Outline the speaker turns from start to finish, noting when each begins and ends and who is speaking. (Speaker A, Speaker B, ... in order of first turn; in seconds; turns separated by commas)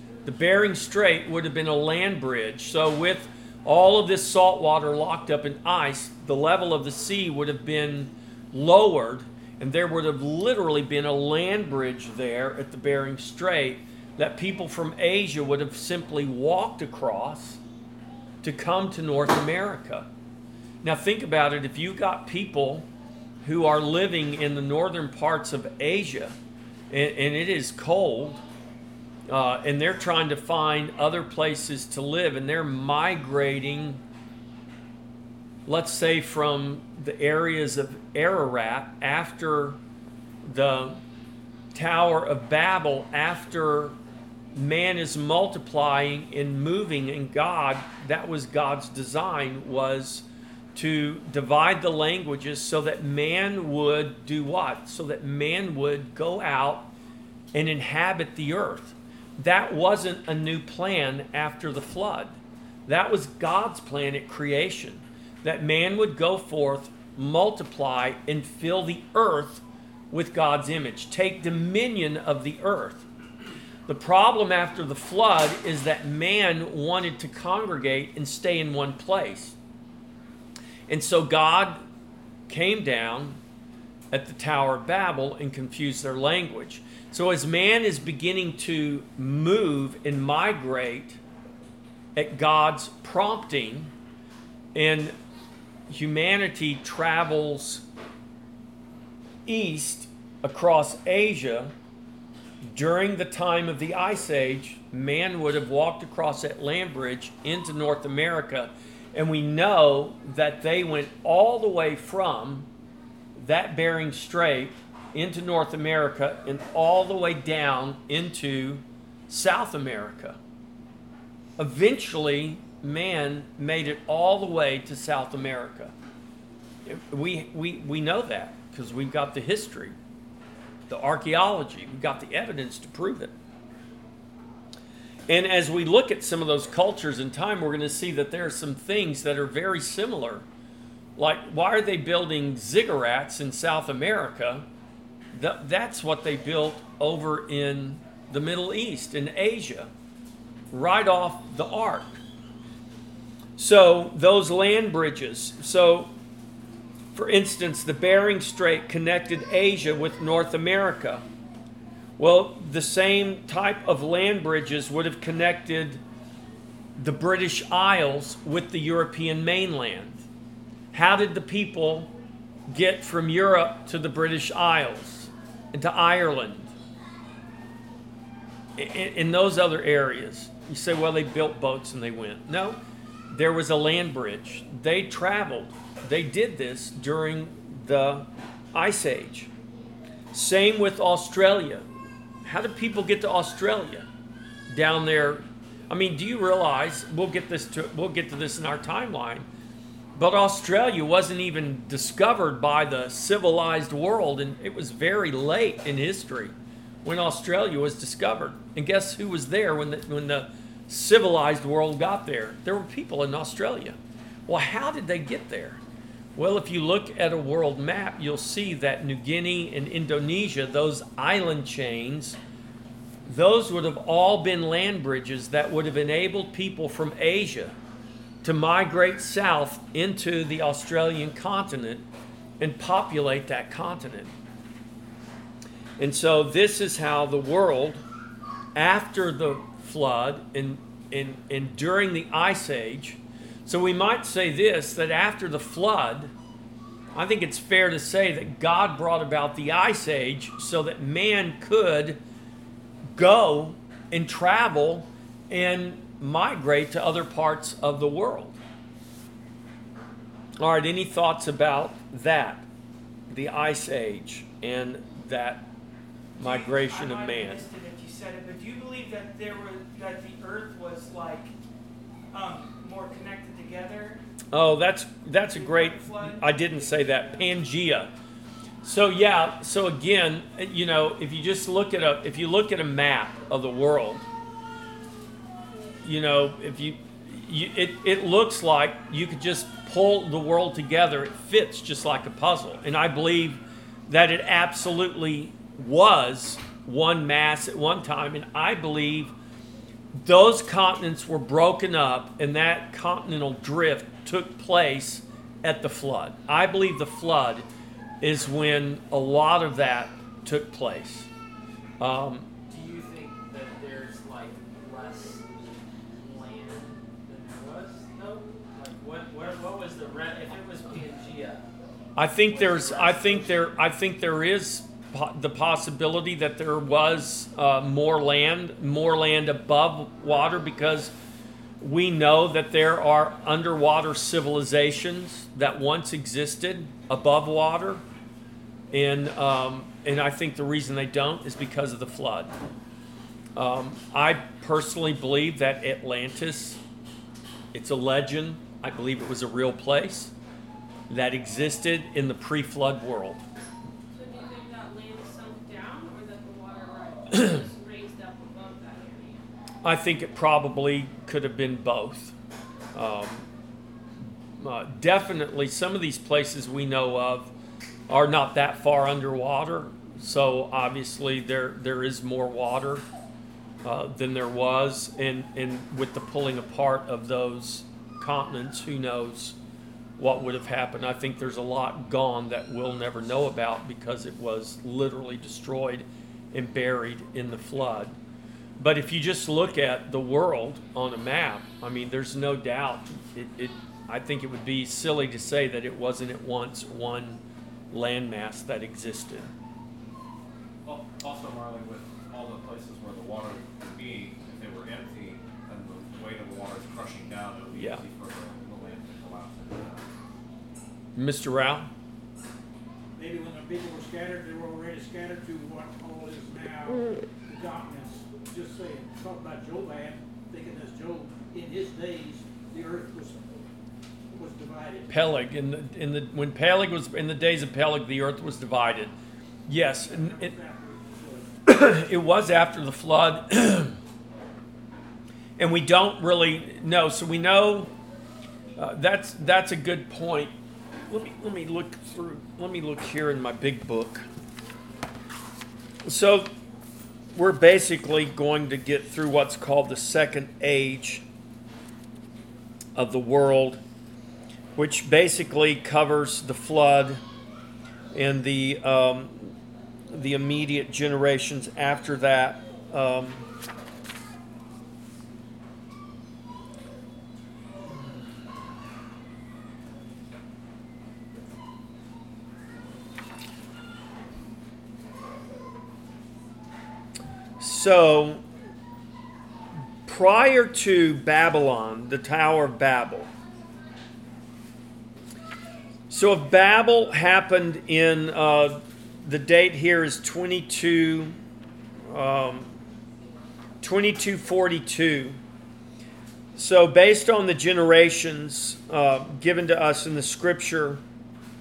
Speaker A: 0.2-17.6, Speaker A: 18.4-20.1, Speaker A: 20.8-22.9, Speaker A: 23.4-26.3, Speaker A: 26.9-28.4, Speaker A: 29.3-34.0, Speaker A: 35.6-39.8, Speaker A: 40.4-41.0, Speaker A: 41.7-44.0, Speaker A: 44.5-56.9, Speaker A: 57.5-62.4, Speaker A: 62.9-73.0, Speaker A: 73.9-79.5, Speaker A: 80.9-81.8, Speaker A: 82.5-83.4, Speaker A: 84.1-91.2, Speaker A: 92.2-93.9, Speaker A: 94.7-95.1, Speaker A: 95.9-97.8, Speaker A: 99.5-101.7, Speaker A: 102.7-112.7, Speaker A: 113.3-120.4, Speaker A: 121.6-125.9, Speaker A: 126.8-129.9, Speaker A: 130.9-133.3, Speaker A: 135.3-140.4, Speaker A: 141.2-144.7, Speaker A: 145.3-149.9, Speaker A: 150.7-152.2, Speaker A: 153.6-156.1, Speaker A: 157.1-161.2, Speaker A: 162.2-166.0, Speaker A: 167.0-170.2, Speaker A: 170.9-172.1, Speaker A: 172.7-176.7, Speaker A: 178.8-182.8, Speaker A: 183.3-189.5, Speaker A: 190.3-191.8, Speaker A: 192.4-194.1, Speaker A: 194.7-199.5, Speaker A: 200.1-215.8, Speaker A: 216.3-222.4, Speaker A: 223.3-227.7, Speaker A: 228.4-232.0, Speaker A: 232.6-234.3, Speaker A: 236.0-238.0, Speaker A: 238.7-246.3, Speaker A: 247.1-252.2, Speaker A: 253.1-258.6, Speaker A: 260.6-262.6, Speaker A: 263.3-265.7, Speaker B: 266.4-271.5, Speaker A: 266.4-267.6, Speaker B: 272.3-274.2, Speaker A: 274.5-278.1, Speaker B: 275.4-277.4, Speaker A: 278.8-284.2, Speaker A: 286.0-299.3, Speaker A: 300.1-307.6, Speaker A: 308.2-311.3, Speaker A: 312.0-312.5, Speaker C: 312.7-315.5, Speaker C: 316.1-321.6, Speaker A: 322.1-331.1, Speaker C: 322.4-323.8, Speaker A: 331.8-338.0, Speaker A: 338.9-342.5, Speaker A: 343.5-346.8, Speaker A: 347.7-350.3, Speaker A: 351.1-353.4, Speaker D: 354.1-359.4, Speaker A: 359.8-362.3, Speaker A: 362.9-363.5, Speaker A: 364.6-367.5, Speaker A: 368.1-373.0, Speaker A: 373.8-379.6, Speaker A: 380.2-388.1, Speaker A: 388.8-397.4, Speaker A: 397.9-399.5, Speaker E: 400.8-410.1, Speaker A: 407.7-408.0, Speaker A: 411.1-411.9, Speaker F: 413.2-423.4, Speaker F: 424.3-425.1, Speaker A: 425.1-429.1, Speaker A: 429.7-430.5, Speaker F: 430.0-431.5, Speaker A: 431.6-434.0, Speaker A: 435.6-437.9, Speaker A: 438.8-440.5, Speaker A: 441.1-444.2, Speaker A: 446.0-446.5, Speaker A: 447.3-451.2, Speaker A: 452.9-453.8, Speaker A: 454.8-457.2, Speaker A: 458.1-459.5, Speaker A: 460.1-463.5, Speaker A: 477.6-478.4, Speaker A: 480.1-483.3, Speaker A: 486.1-491.4, Speaker A: 492.1-492.7, Speaker A: 493.8-495.4, Speaker A: 496.6-501.0